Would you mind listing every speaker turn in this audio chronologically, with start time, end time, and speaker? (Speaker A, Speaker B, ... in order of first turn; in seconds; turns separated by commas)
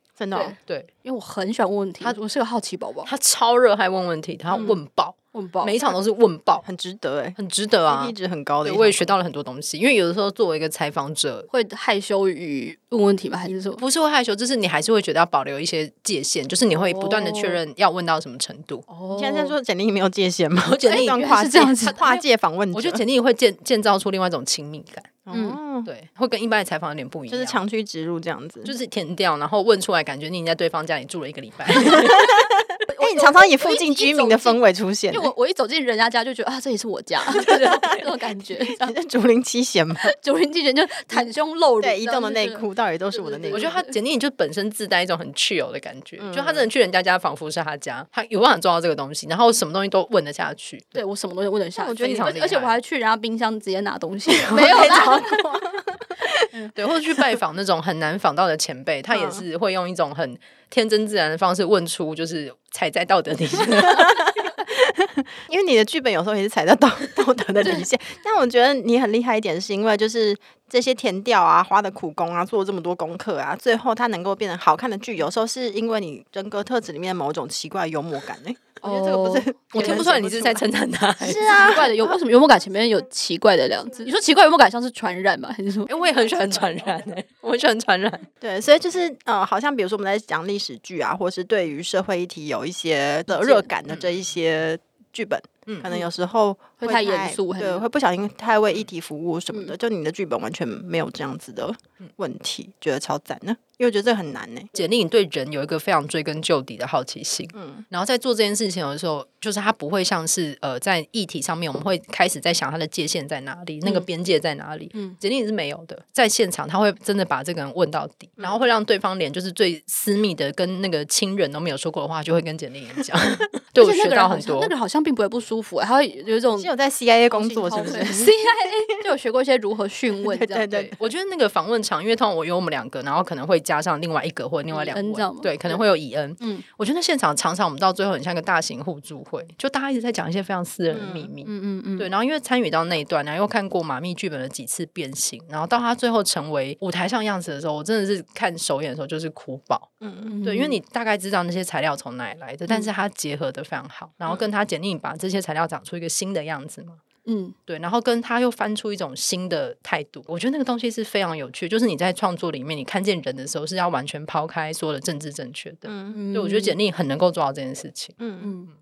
Speaker A: 0.2-0.6, Speaker B: 0.3-3.1, Speaker C: 3.1-6.7, Speaker B: 5.3-5.8, Speaker A: 6.6-9.1, Speaker C: 7.4-11.5, Speaker B: 11.5-13.8, Speaker C: 13.8-18.9, Speaker B: 16.8-17.6, Speaker B: 18.9-19.6, Speaker A: 19.1-23.0, Speaker C: 20.6-21.3, Speaker B: 20.9-22.1, Speaker C: 21.9-25.2, Speaker A: 25.3-25.9, Speaker B: 25.3-25.6, Speaker C: 25.9-27.6, Speaker A: 27.3-28.7, Speaker C: 28.6-32.3, Speaker A: 31.8-35.3, Speaker B: 32.9-38.9, Speaker C: 37.3-38.1, Speaker A: 38.8-40.1, Speaker B: 40.0-44.0, Speaker A: 41.8-43.7, Speaker C: 43.5-51.0, Speaker A: 46.2-46.7, Speaker B: 51.0-55.6, Speaker A: 51.8-52.4, Speaker C: 52.0-52.8, Speaker A: 54.3-56.3, Speaker C: 56.8-64.4, Speaker A: 59.1-59.4, Speaker A: 63.9-80.7, Speaker B: 78.8-80.0, Speaker C: 79.7-81.7, Speaker A: 81.2-82.2, Speaker B: 81.6-85.9, Speaker C: 85.9-88.3, Speaker A: 88.4-104.7, Speaker B: 93.3-93.7, Speaker B: 96.8-97.8, Speaker C: 104.8-124.7, Speaker A: 107.5-107.8, Speaker B: 123.8-126.7, Speaker A: 126.6-128.9, Speaker B: 127.3-130.7, Speaker A: 130.2-131.0, Speaker C: 130.7-157.0, Speaker B: 134.7-135.5, Speaker B: 136.4-136.7, Speaker A: 140.9-141.3, Speaker B: 141.4-142.1, Speaker A: 150.0-150.3, Speaker B: 150.2-150.8, Speaker B: 157.2-157.6, Speaker C: 157.7-168.2, Speaker A: 165.9-166.2, Speaker B: 166.1-166.8, Speaker A: 168.2-168.5, Speaker B: 168.4-168.7